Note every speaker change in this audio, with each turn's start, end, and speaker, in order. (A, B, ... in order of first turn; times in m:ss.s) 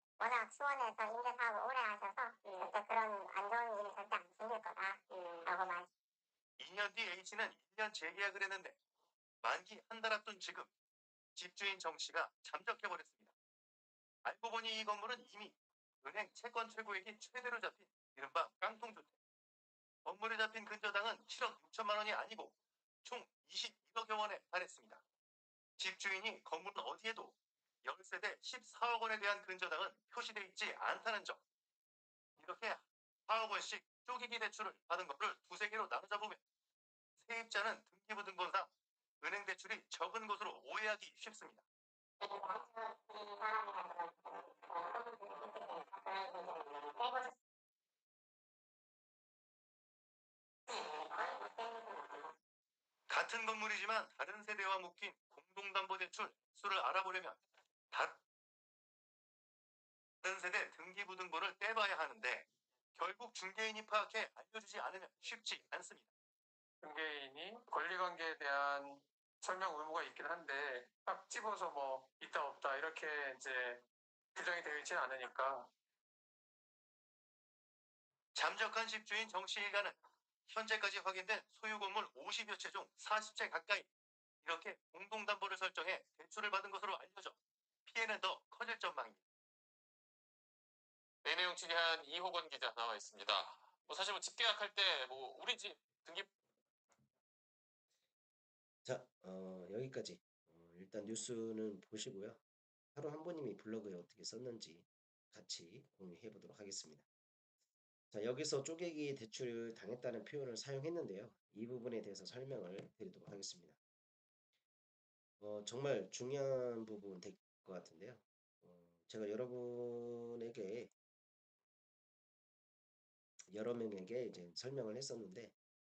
0:00.2-0:05.9 A
0:06.6-0:08.8 B
0:09.4-0:10.7 B
0:11.4-0:13.3 B
0:14.2-0:19.1 B
0:20.0-0:25.0 B
0:25.8-0:31.4 B
0:32.4-0:36.4 B
0:37.2-0:38.7 B
0:39.2-0:41.6 B
0:42.2-0:47.3 A
0:50.7-0:52.3 A
0:53.1-0:57.4 B
0:57.9-0:58.2 B
1:00.2-1:06.1 B
1:06.8-1:13.8 C
1:14.3-1:15.7 C
1:18.3-1:19.9 B
1:20.5-1:23.9 B
1:24.4-1:27.3 B
1:27.8-1:29.2 B
1:31.2-1:36.3 D
1:38.8-1:42.4 E
1:42.9-1:47.1 E
1:48.1-1:53.8 E
1:55.4-2:00.9 E
2:03.5-2:05.6 E